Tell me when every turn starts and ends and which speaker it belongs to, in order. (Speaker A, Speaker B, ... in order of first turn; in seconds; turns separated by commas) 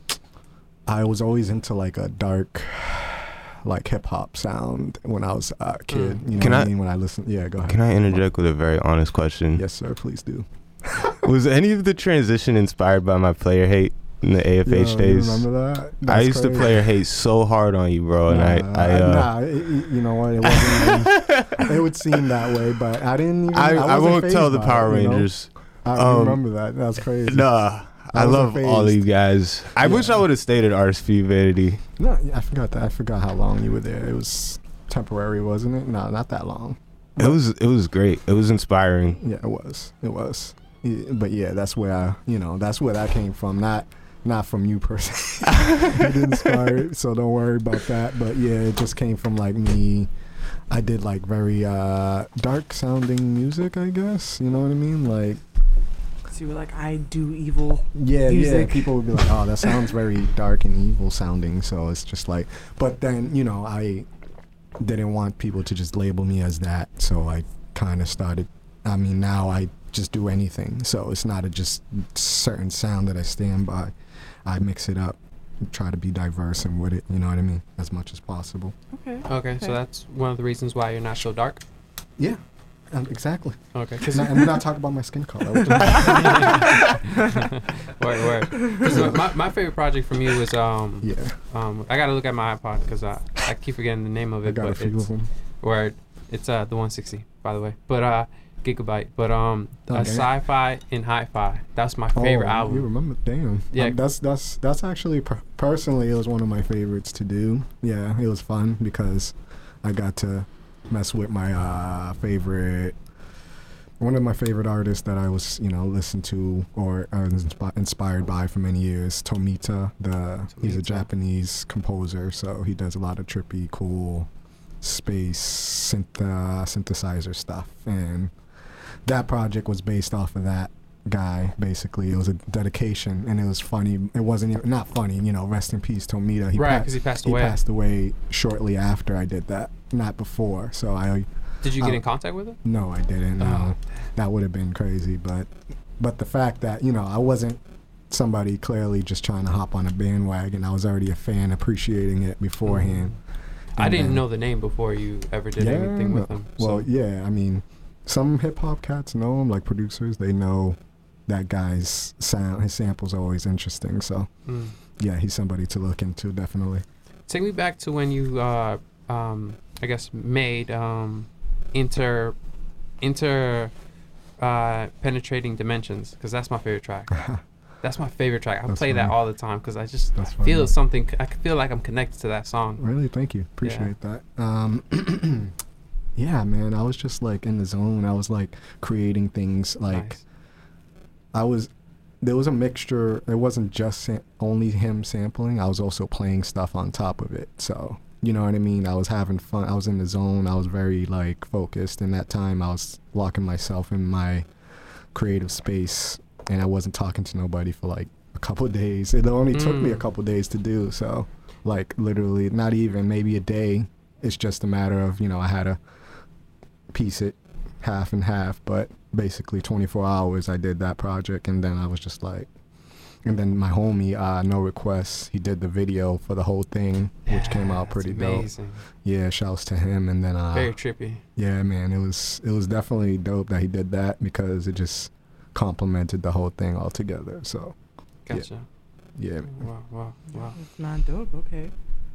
Speaker A: 0.9-8.2, Speaker B: 5.9-6.2, Speaker C: 6.4-6.7, Speaker C: 7.6-9.6, Speaker A: 9.5-11.2, Speaker C: 11.2-15.4, Speaker A: 14.6-16.9, Speaker C: 16.1-19.3, Speaker A: 18.3-25.3, Speaker C: 20.5-21.7, Speaker C: 23.5-26.4, Speaker A: 25.8-27.5, Speaker C: 27.3-31.8, Speaker A: 28.1-29.0, Speaker A: 29.8-30.2, Speaker A: 32.0-37.4, Speaker C: 37.2-39.2, Speaker A: 39.1-50.1, Speaker C: 45.5-46.1, Speaker A: 50.7-55.4, Speaker D: 56.3-59.2, Speaker A: 57.9-64.1, Speaker A: 64.8-73.9, Speaker A: 74.4-78.7, Speaker D: 78.9-79.8, Speaker B: 79.3-81.6, Speaker A: 82.9-86.7, Speaker B: 83.7-84.6, Speaker B: 85.7-95.1, Speaker A: 88.8-89.2, Speaker A: 91.0-91.4, Speaker A: 94.4-95.3, Speaker B: 95.6-102.9, Speaker A: 99.9-100.3, Speaker A: 102.1-113.0, Speaker B: 103.7-104.0, Speaker A: 114.0-124.3, Speaker B: 120.5-121.1, Speaker A: 124.8-128.3, Speaker A: 129.0-142.0, Speaker B: 136.5-137.6, Speaker B: 141.6-142.6, Speaker A: 142.6-153.2, Speaker B: 143.4-143.7, Speaker B: 152.6-153.1, Speaker A: 153.8-154.2, Speaker B: 153.8-156.9, Speaker A: 155.6-164.3, Speaker B: 164.5-164.7, Speaker A: 165.0-166.8, Speaker B: 167.3-172.3, Speaker B: 173.0-173.7, Speaker B: 174.4-177.2, Speaker A: 177.1-177.4, Speaker B: 177.8-182.8, Speaker A: 178.7-179.2, Speaker A: 180.1-180.7, Speaker A: 182.8-185.5, Speaker B: 183.6-183.9, Speaker A: 186.2-190.2, Speaker B: 189.9-190.2, Speaker A: 191.3-191.7, Speaker A: 192.2-204.4, Speaker A: 205.1-215.8, Speaker B: 209.5-210.0, Speaker A: 216.9-222.5, Speaker A: 223.2-228.5, Speaker B: 227.3-228.8, Speaker A: 229.0-230.7, Speaker B: 230.5-231.2, Speaker A: 231.3-237.8, Speaker B: 238.3-238.6, Speaker A: 239.2-239.7, Speaker B: 239.5-240.6, Speaker D: 240.3-241.7